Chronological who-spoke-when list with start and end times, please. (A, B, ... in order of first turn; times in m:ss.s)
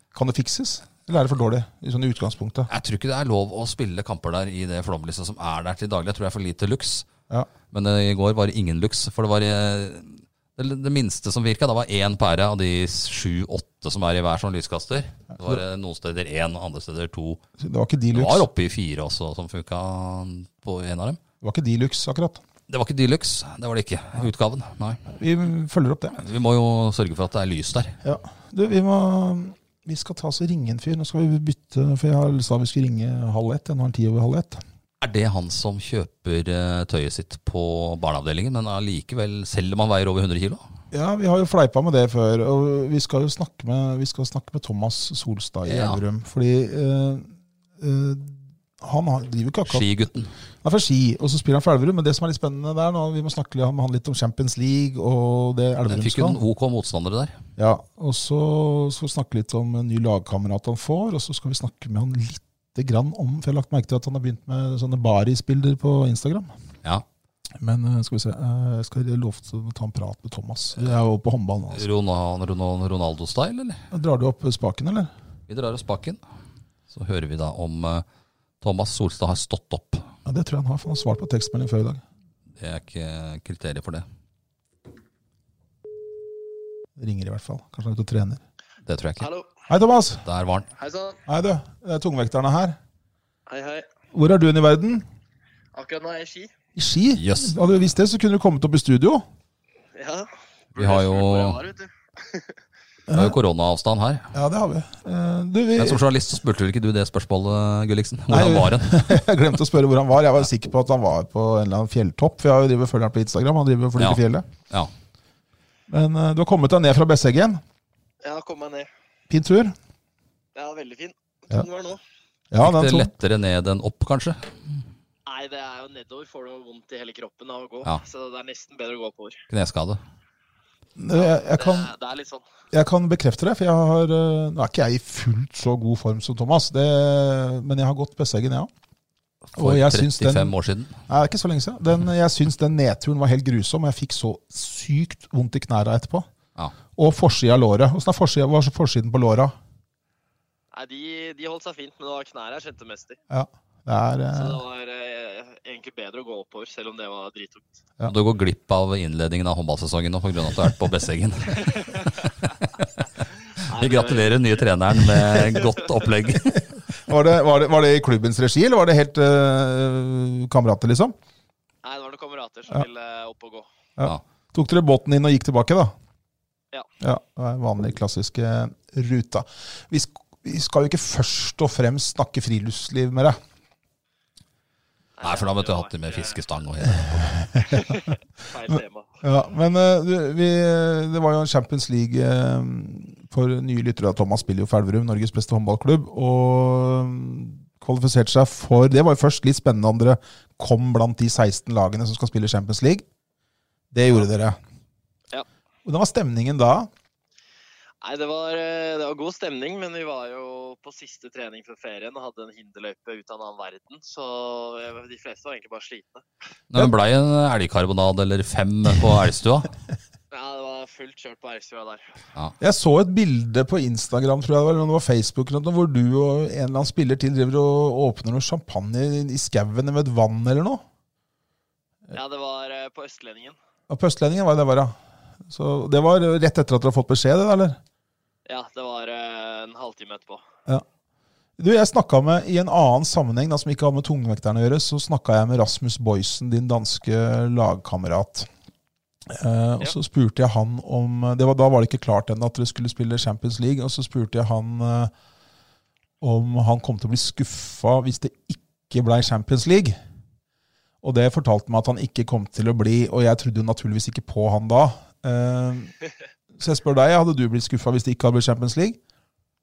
0:00.1-0:02.7 A
0:02.7-0:07.1 B
0:07.7-0:17.4 B
0:17.6-0:18.4 A
0:18.1-0:21.2 B
0:21.4-0:22.4 A
0:22.7-0:25.1 B
0:25.1-0:26.2 A
0:26.2-0:28.0 B
0:28.0-0:34.6 A
0:35.0-0:40.6 B
0:40.9-0:49.9 A
0:45.6-0:46.0 B
0:49.7-0:50.3 B
0:50.6-0:56.4 A
0:55.9-0:57.4 B
0:57.6-1:06.5 A
1:07.6-1:11.9 A
1:11.7-1:13.8 B
1:13.9-1:15.1 A
1:15.5-1:16.2 B
1:16.9-1:18.0 B
1:18.6-1:20.1 B
1:20.2-1:22.0 A
1:22.6-1:24.0 B
1:27.0-1:28.4 A
1:28.8-1:29.3 B
1:29.2-1:29.5 C
1:29.7-1:30.2 A
1:30.2-1:30.7 B
1:30.8-1:31.2 C
1:31.3-1:32.8 A
1:33.5-1:33.8 C
1:34.1-1:35.0 A
1:35.7-1:36.5 C
1:36.8-1:39.2 A
1:37.1-1:37.6 B
1:39.9-1:42.6 C
1:40.8-1:41.6 B
1:43.1-1:43.4 A
1:43.1-1:44.3 B
1:44.3-1:46.0 A
1:45.8-1:49.1 B
1:48.3-1:54.4 A
1:54.0-1:54.9 B
1:55.9-1:57.6 A
1:58.2-1:58.9 C
1:59.3-1:59.7 A
2:00.5-2:02.0 C
2:02.5-2:03.1 A
2:02.6-2:04.8 B
2:05.2-2:09.4 C
2:09.5-2:10.0 B
2:11.0-2:11.9 A
2:11.1-2:12.4 C
2:12.7-2:18.7 A
2:19.5-2:21.0 B
2:19.6-2:20.5 A
2:21.1-2:26.3 A
2:26.9-2:29.5 A
2:30.7-2:33.2 C
2:33.3-2:34.6 A
2:34.3-2:37.8 C
2:38.1-2:42.9 B
2:41.6-2:42.1 C
2:43.6-2:44.6 C
2:43.7-2:46.6 B
2:46.9-2:51.1 A
2:51.8-2:53.7 C
2:54.0-2:55.9 A
2:57.0-3:03.4 A
3:05.2-3:06.4 C
3:05.2-3:07.5 B
3:07.6-3:09.1 C
3:08.7-3:23.0 A
3:23.9-3:24.6 A
3:25.8-3:26.9 A
3:28.0-3:36.2 C
3:36.7-3:39.7 B
3:40.3-3:42.2 C
3:42.6-3:50.8 A
3:52.1-3:53.6 C
3:53.9-3:54.9 A
3:55.5-3:57.8 A
3:58.4-4:00.4 C
4:01.6-4:08.5 A
4:09.3-4:15.1 A
4:16.2-4:20.0 A
4:21.0-4:25.9 A
4:26.6-4:29.0 A